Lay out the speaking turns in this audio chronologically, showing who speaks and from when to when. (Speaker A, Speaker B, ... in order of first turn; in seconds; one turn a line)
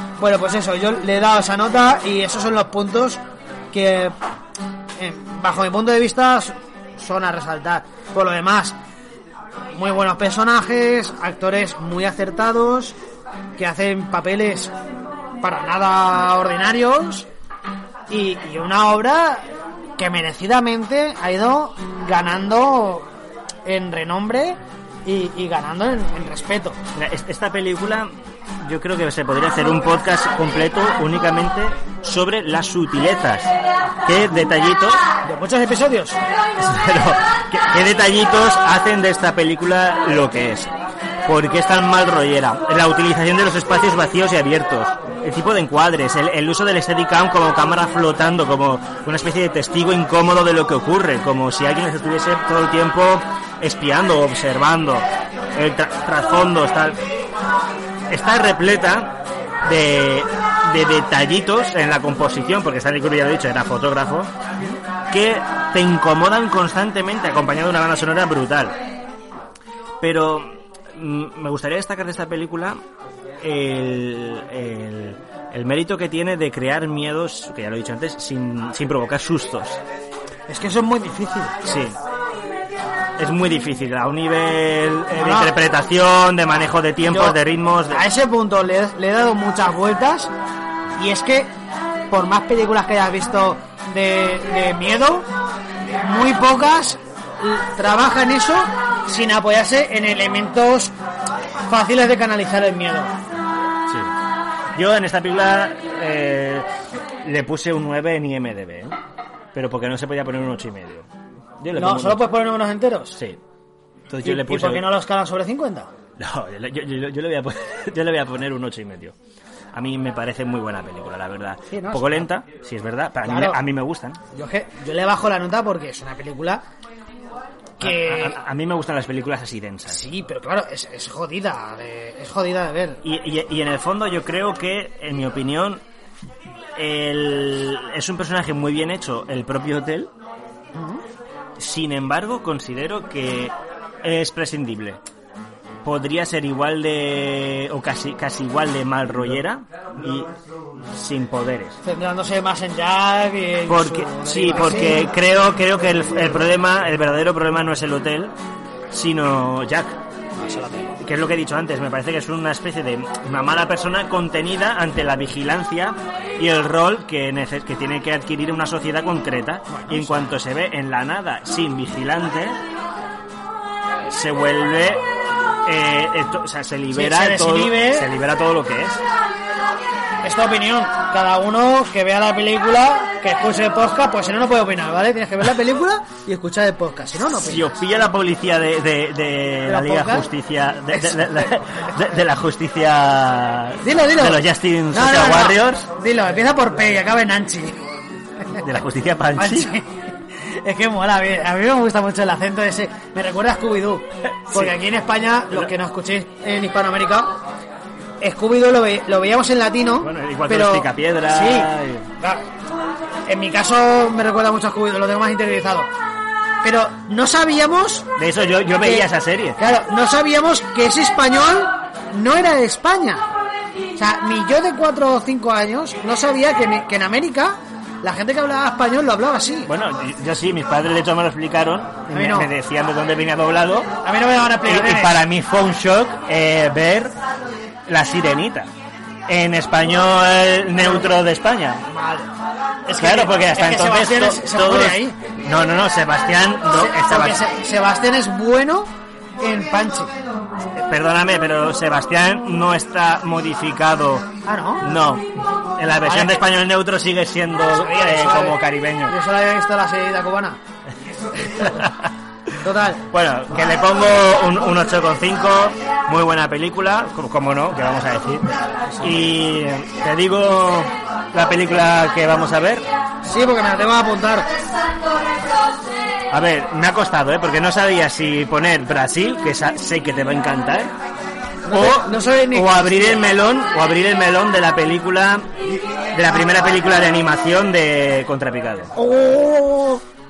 Speaker A: 0.2-3.2
Speaker A: 3.7-4.1
Speaker A: 5.0-8.8
Speaker A: 9.7-12.9
Speaker A: 13.6-14.7
Speaker A: 15.4-17.3
Speaker A: 18.1-23.1
Speaker A: 23.6-26.8
Speaker B: 26.9-28.1
Speaker B: 28.6-33.5
Speaker B: 34.0-35.0
Speaker A: 35.2-36.2
Speaker B: 36.6-40.7
Speaker B: 41.2-57.0
Speaker B: 58.1-64.3
Speaker B: 65.1-68.8
Speaker B: 70.0-72.8
Speaker B: 73.4-79.8
Speaker A: 80.5-81.6
Speaker B: 81.6-82.0
Speaker B: 83.2-88.0
Speaker A: 85.2-85.5
Speaker A: 87.1-87.4
Speaker A: 87.9-90.3
Speaker A: 91.0-91.5
Speaker A: 92.1-95.2
Speaker A: 96.0-100.9
Speaker A: 101.7-103.1
Speaker B: 103.9-104.1
Speaker B: 104.8-106.7
Speaker B: 107.2-109.0
Speaker B: 109.5-111.1
Speaker B: 111.6-112.3
Speaker A: 111.8-113.2
Speaker B: 113.1-113.4
Speaker B: 114.1-114.9
Speaker A: 114.2-115.9
Speaker B: 116.2-119.1
Speaker B: 119.7-124.2
Speaker A: 121.7-122.3
Speaker A: 123.2-123.6
Speaker A: 124.3-126.6
Speaker A: 127.8-128.4
Speaker B: 127.8-130.0
Speaker A: 129.9-133.0
Speaker B: 133.0-135.8
Speaker B: 136.8-140.1
Speaker A: 140.7-141.0
Speaker B: 141.6-145.0
Speaker B: 145.8-150.3
Speaker B: 150.9-151.8
Speaker A: 151.8-155.1
Speaker B: 153.7-158.3
Speaker B: 158.9-160.0
Speaker A: 160.4-161.0
Speaker B: 161.0-172.6
Speaker A: 169.7-170.3
Speaker B: 174.1-175.0
Speaker B: 175.6-179.0
Speaker A: 176.9-178.1
Speaker A: 180.2-187.7
Speaker B: 187.3-195.9
Speaker A: 189.7-190.3
Speaker A: 190.9-191.5
Speaker A: 193.8-197.8
Speaker B: 198.6-199.7
Speaker A: 199.3-207.3
Speaker B: 204.5-204.7
Speaker A: 208.2-212.4
Speaker B: 210.0-212.1
Speaker A: 213.3-215.9
Speaker A: 216.6-218.1
Speaker B: 218.2-219.6
Speaker A: 218.8-223.2
Speaker A: 223.9-229.7
Speaker B: 229.7-233.9
Speaker A: 232.1-232.5
Speaker A: 234.0-235.2
Speaker B: 234.6-237.1
Speaker B: 237.9-238.7
Speaker B: 239.3-241.8
Speaker A: 240.8-241.1
Speaker A: 241.9-242.3
Speaker A: 242.9-245.2
Speaker B: 243.0-247.4
Speaker A: 246.7-250.1
Speaker B: 250.8-254.3
Speaker A: 254.4-254.8
Speaker B: 254.8-259.1
Speaker A: 256.0-256.4
Speaker A: 257.7-260.6
Speaker B: 261.6-262.1
Speaker A: 262.6-263.0
Speaker B: 263.1-268.5
Speaker B: 269.0-272.9
Speaker A: 273.2-274.5
Speaker B: 276.3-280.9
Speaker A: 281.6-283.2
Speaker B: 281.7-285.5
Speaker B: 286.1-288.9
Speaker A: 288.9-290.0